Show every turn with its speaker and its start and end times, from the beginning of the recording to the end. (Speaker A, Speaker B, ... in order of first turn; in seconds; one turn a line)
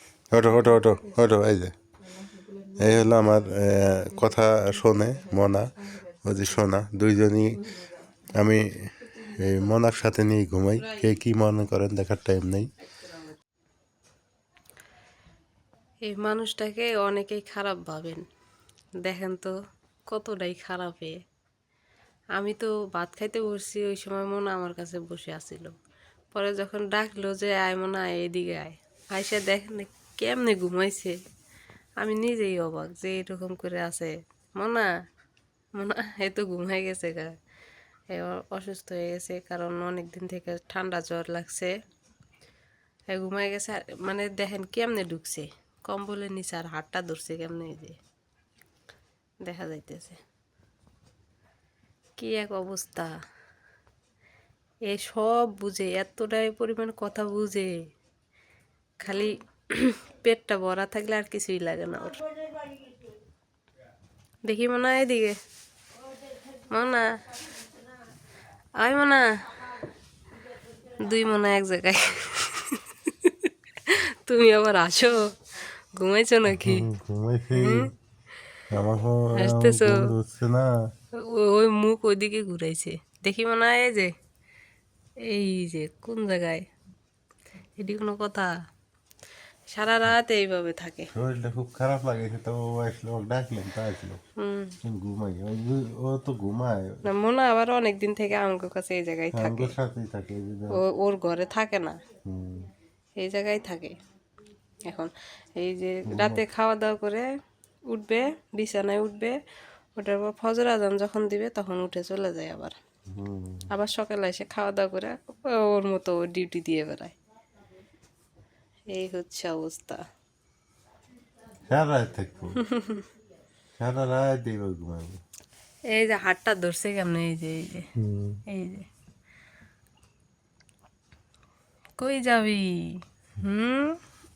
Speaker A: 0.3-1.8
Speaker B: 0.5-1.2
Speaker B: 2.0-6.6
Speaker A: 2.8-5.7
Speaker A: 6.2-7.6
Speaker B: 7.5-8.3
Speaker A: 8.3-12.7
Speaker B: 9.0-9.8
Speaker B: 10.8-11.2
Speaker B: 12.8-13.4
Speaker B: 16.0-18.2
Speaker B: 19.0-19.6
Speaker B: 20.1-21.2
Speaker B: 22.4-25.8
Speaker B: 26.3-31.2
Speaker B: 32.0-34.9
Speaker B: 35.8-37.4
Speaker B: 38.1-41.8
Speaker B: 43.1-48.0
Speaker B: 49.4-50.2
Speaker B: 52.2-53.1
Speaker B: 54.9-57.9
Speaker B: 59.0-62.7
Speaker B: 64.4-65.4
Speaker B: 66.5-67.2
Speaker B: 68.8-69.7
Speaker B: 70.8-75.4
Speaker B: 75.9-76.9
Speaker A: 76.5-77.9
Speaker B: 77.5-77.9
Speaker A: 78.7-80.9
Speaker B: 79.4-80.1
Speaker B: 81.1-84.2
Speaker B: 85.2-86.7
Speaker B: 87.8-88.6
Speaker B: 89.7-91.1
Speaker A: 91.1-94.2
Speaker B: 94.4-94.8
Speaker A: 94.8-97.0
Speaker B: 97.0-99.8
Speaker A: 99.3-100.8
Speaker B: 100.7-102.0
Speaker A: 102.2-102.7
Speaker B: 103.2-104.0
Speaker B: 104.8-107.3
Speaker A: 106.1-106.4
Speaker B: 107.9-109.4
Speaker B: 110.0-112.8
Speaker A: 113.1-113.7
Speaker B: 113.7-117.2
Speaker B: 118.9-120.0
Speaker A: 121.7-122.7
Speaker B: 122.6-123.1
Speaker A: 123.8-125.2
Speaker B: 125.9-127.9
Speaker A: 128.0-128.4
Speaker B: 128.5-128.9
Speaker B: 132.0-134.0